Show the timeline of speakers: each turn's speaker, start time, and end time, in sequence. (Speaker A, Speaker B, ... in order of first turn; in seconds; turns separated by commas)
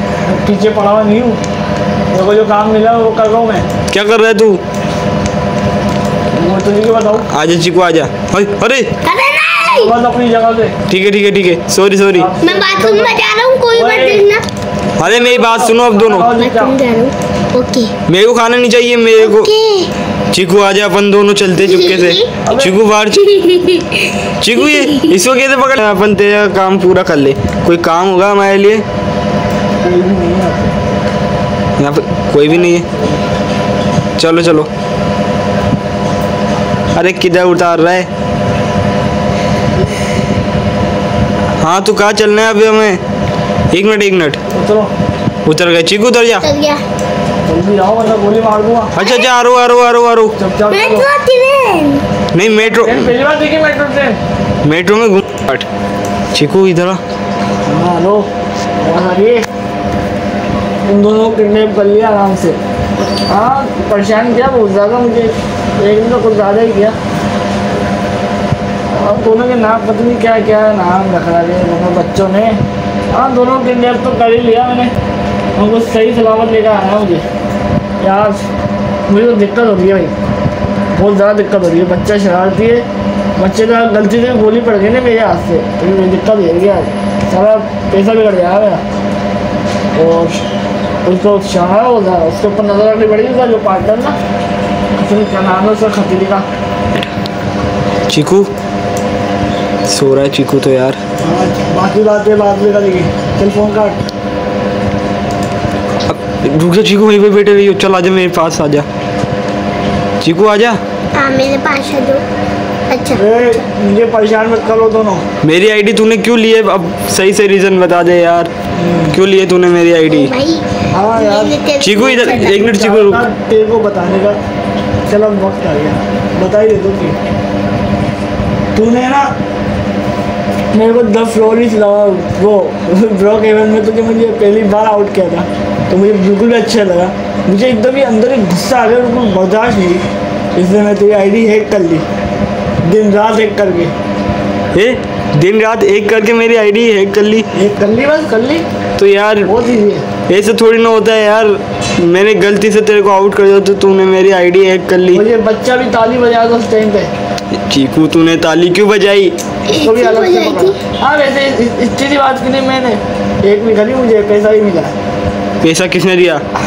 Speaker A: 0.3-1.4, Speaker A: 2.1-3.7, Speaker B: 3.9-4.6, Speaker A: 6.3-7.3, Speaker B: 7.3-8.9, Speaker C: 9.0-9.9, Speaker A: 9.6-10.8, Speaker B: 10.9-12.3, Speaker A: 12.2-13.2, Speaker C: 12.4-14.4, Speaker A: 13.7-14.3, Speaker B: 15.0-16.3, Speaker A: 15.0-16.8, Speaker C: 16.3-17.9, Speaker B: 18.1-19.5, Speaker C: 19.2-19.9, Speaker B: 20.3-23.2, Speaker C: 21.6-22.3, Speaker A: 22.4-22.8, Speaker C: 23.2-25.1, Speaker B: 24.4-28.8, Speaker A: 29.8-30.8, Speaker B: 31.8-32.9, Speaker A: 32.5-33.2, Speaker B: 34.2-34.7, Speaker B: 36.9-38.1, Speaker B: 41.6-43.0, Speaker B: 43.7-44.4, Speaker A: 44.5-44.9, Speaker B: 45.5-46.5, Speaker C: 46.4-46.8, Speaker A: 47.4-48.9, Speaker B: 49.0-50.4, Speaker C: 49.0-49.3, Speaker A: 50.4-51.1, Speaker C: 50.7-52.0, Speaker B: 52.3-53.1, Speaker A: 52.4-54.2, Speaker B: 54.6-55.7, Speaker B: 56.3-57.0, Speaker A: 57.7-58.3, Speaker A: 58.8-59.4, Speaker A: 60.8-62.6, Speaker A: 63.3-67.0, Speaker A: 68.9-74.9, Speaker A: 75.6-77.2, Speaker A: 78.0-78.4, Speaker A: 79.1-80.1, Speaker A: 80.9-82.8, Speaker A: 83.4-88.8, Speaker A: 90.0-90.4, Speaker A: 91.0-94.2, Speaker A: 95.0-96.5, Speaker B: 98.1-98.5, Speaker B: 99.9-101.0, Speaker A: 101.2-104.0, Speaker B: 106.1-108.9, Speaker B: 110.2-110.8, Speaker C: 111.1-112.2, Speaker C: 112.9-113.3, Speaker A: 113.1-115.2, Speaker B: 115.4-118.5, Speaker A: 118.8-119.2, Speaker B: 119.1-120.3, Speaker C: 120.1-122.6, Speaker A: 120.9-121.6, Speaker B: 121.8-123.2, Speaker A: 122.5-124.4, Speaker A: 125.1-127.2, Speaker A: 128.8-129.3, Speaker A: 130.7-140.0, Speaker A: 140.6-142.1, Speaker A: 142.8-143.9, Speaker B: 144.7-147.5, Speaker A: 147.6-148.7, Speaker B: 149.0-149.5, Speaker A: 149.5-150.1, Speaker B: 150.3-155.2, Speaker A: 155.1-157.1, Speaker B: 157.6-159.3, Speaker C: 159.7-160.8, Speaker A: 159.8-164.9, Speaker B: 165.6-166.4